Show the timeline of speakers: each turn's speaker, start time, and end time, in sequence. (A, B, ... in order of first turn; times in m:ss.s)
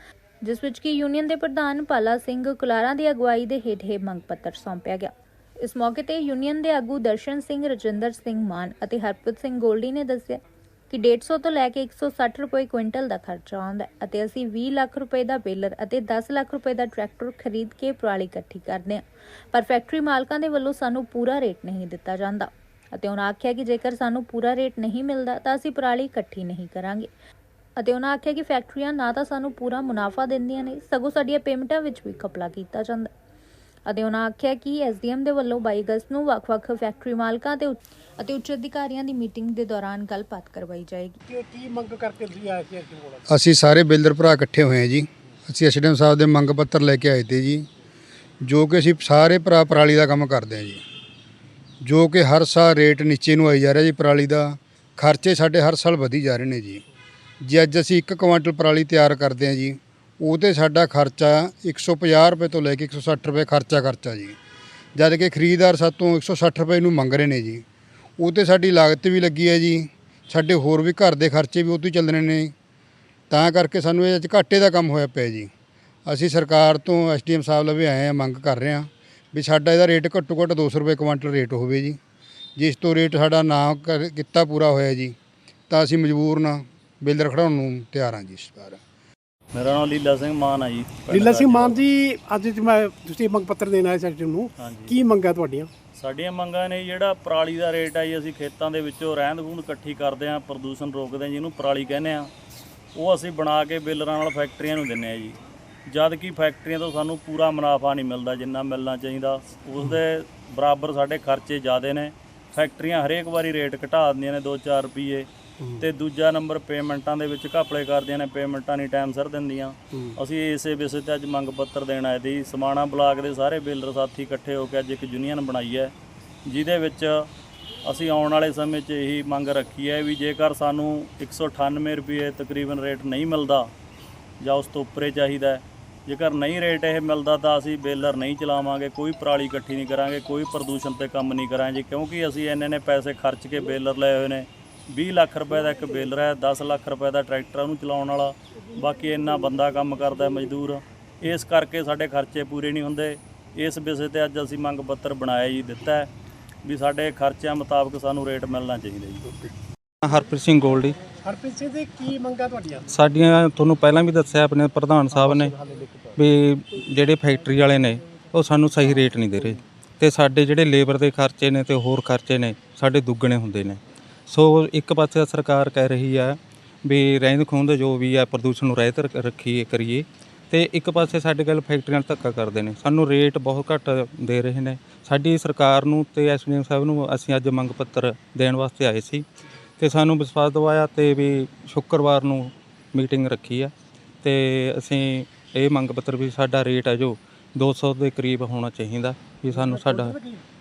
0:00.4-0:27.1 A
0:27.8-0:33.1 A
0:33.8-0:41.2 A
0:41.3-0:43.2 B
0:43.3-0:47.6 C
0:48.4-0:50.8 C
0:51.8-0:56.8 C
0:57.4-1:04.4 C
1:05.0-1:07.6 C
1:08.2-1:12.5 C
1:13.3-1:15.5 C
1:16.0-1:22.0 C
1:22.6-1:25.1 C
1:25.7-1:28.8 C
1:29.5-1:31.8 D
1:31.1-1:35.7 B
1:34.6-1:35.0 D
1:36.0-1:42.3 D
1:42.9-1:55.3 D
1:55.8-2:05.9 D
2:06.4-2:07.3 D
2:07.8-2:13.7 D
2:14.4-2:36.1 D
2:36.6-2:39.4 D
2:40.0-2:41.0 E
2:41.2-2:42.9 B
2:42.9-2:45.6 E
2:45.3-2:45.9 B
2:46.1-3:09.2 E
3:09.8-3:13.7 E
3:14.2-3:20.2 E
3:19.5-3:20.4 B